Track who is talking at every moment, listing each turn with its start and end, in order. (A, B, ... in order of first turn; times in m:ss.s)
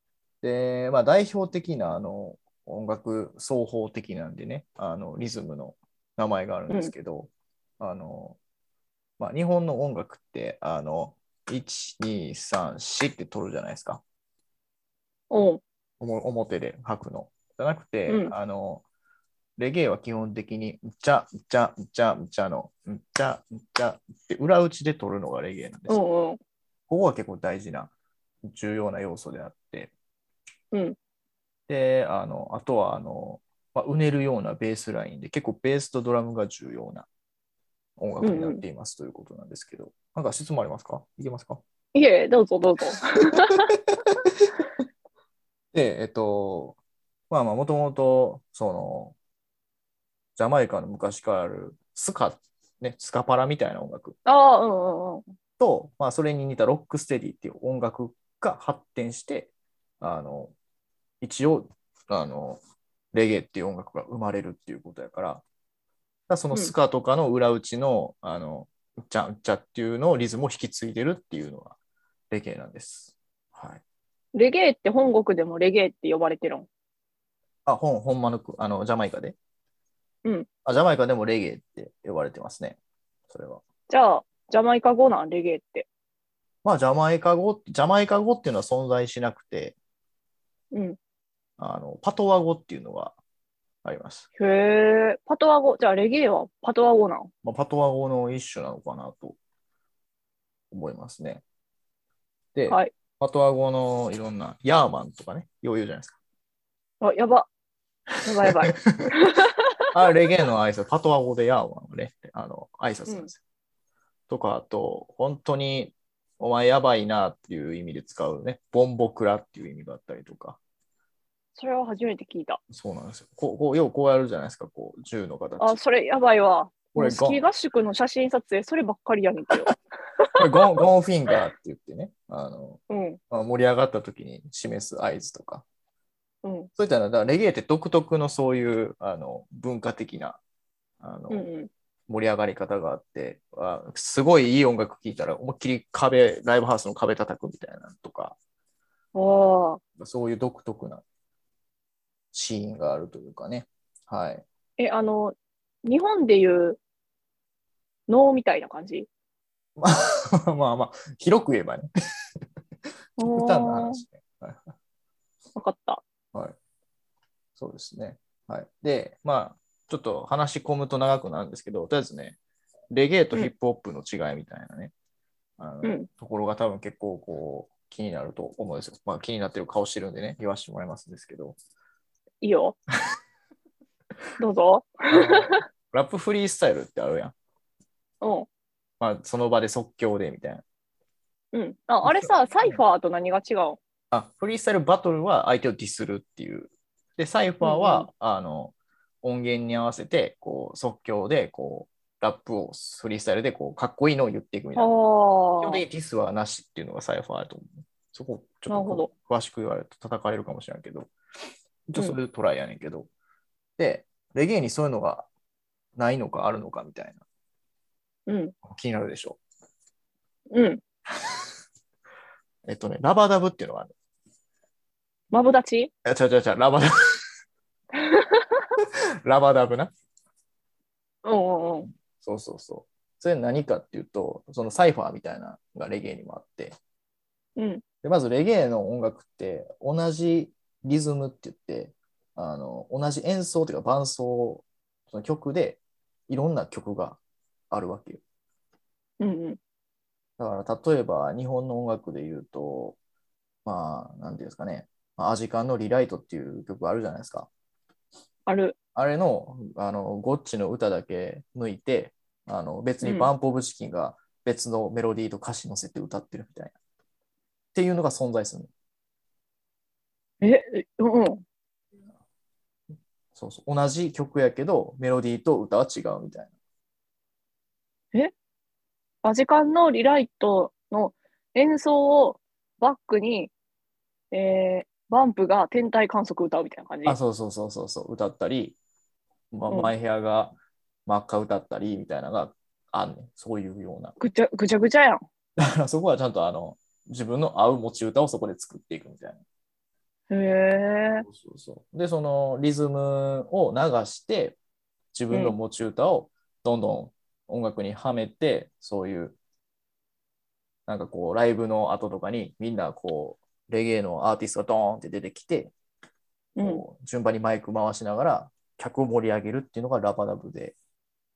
0:00.4-0:08.4 A
0:09.2-0:14.0 A
0:15.3-0:15.6 B
0:16.0-0:18.8 A
0:18.1-0:18.3 B
0:19.6-0:26.0 A
0:25.9-0:26.4 B
0:26.9-0:27.9 A
0:28.4-0:29.9 A
0:30.7-0:31.0 B
0:31.7-0:37.1 A
0:38.0-0:41.6 A
0:38.2-0:38.6 B
0:41.9-0:43.7 B
0:45.7-0:46.8 A
0:47.3-0:49.2 A
0:50.4-0:54.2 A
0:54.2-0:55.2 B
0:55.6-1:00.5 A
1:01.2-1:02.6 A
1:03.1-1:05.4 A
1:06.3-1:11.8 A
1:12.3-1:13.8 A
1:14.3-1:16.7 B
1:17.6-1:19.4 A
1:20.6-1:22.8 A
1:23.3-1:23.6 A
1:23.9-1:25.9 B
1:26.6-1:29.8 A
1:30.7-1:31.0 B
1:31.6-1:33.2 A
1:33.8-1:34.2 A
1:34.4-1:37.3 B
1:37.4-1:39.4 A
1:40.7-1:41.4 A
1:42.5-1:46.2 A
1:47.0-1:47.5 B
1:48.2-1:49.7 B
1:48.4-1:49.1 A
1:49.9-1:53.4 A
1:54.3-2:00.6 A
2:01.6-2:02.6 B
2:02.7-2:05.8 A
2:05.6-2:10.4 B
2:06.9-2:07.4 A
2:10.4-2:15.6 A
2:12.9-2:13.2 B
2:16.4-2:16.7 B
2:16.8-2:20.4 A
2:21.0-2:21.5 A
2:21.3-2:21.7 B
2:22.1-2:28.4 A
2:29.1-2:29.8 B
2:30.0-2:31.0 A
2:32.3-2:34.4 A
2:34.8-2:36.8 B
2:38.1-2:39.1 B
2:39.8-2:41.9 A
2:43.2-2:44.0 B
2:43.2-2:44.7 A
2:45.6-2:46.0 B
2:47.6-2:52.4 A
2:52.9-2:54.9 A
2:55.6-3:01.6 A
2:55.8-2:56.1 B
3:02.4-3:02.8 B
3:04.4-3:05.6 B
3:05.1-3:07.3 A
3:08.2-3:08.5 B
3:09.0-3:10.6 A
3:11.5-3:13.8 B
3:12.0-3:12.8 A
3:14.1-3:24.9 A
3:17.6-3:18.1 B
3:24.8-3:25.8 B
3:25.6-3:31.1 A
3:28.7-3:29.1 B
3:31.9-3:33.1 A
3:33.8-3:35.3 A
3:36.0-3:37.2 A
3:38.3-3:38.5 B
3:38.6-3:39.4 A
3:40.5-3:40.8 B
3:42.6-3:43.9 A
3:45.3-3:45.9 B
3:46.0-3:47.2 A
3:48.0-3:48.6 B
3:48.8-3:49.9 A
3:51.2-3:51.9 B
3:52.2-3:56.8 A
3:57.6-3:57.8 B
3:58.0-4:07.2 A
4:07.7-4:08.2 A
4:09.2-4:09.6 B
4:10.4-4:13.0 A
4:13.6-4:17.5 A
4:18.5-4:18.8 B
4:18.9-4:26.7 A
4:23.0-4:23.3 B
4:27.7-4:28.7 A
4:30.4-4:31.4 B
4:33.3-4:36.5 A
4:39.2-4:43.5 B
4:44.3-4:47.2 B
4:47.0-4:48.8 A
4:49.5-4:50.5 A
4:51.0-4:54.1 A
4:54.2-4:55.2 B
4:55.6-4:59.4 A
5:00.3-5:01.2 B
5:01.2-5:04.6 A
5:05.1-5:09.4 A
5:05.3-5:05.6 B
5:10.9-5:15.7 A
5:16.6-5:16.8 B
5:16.6-5:20.8 A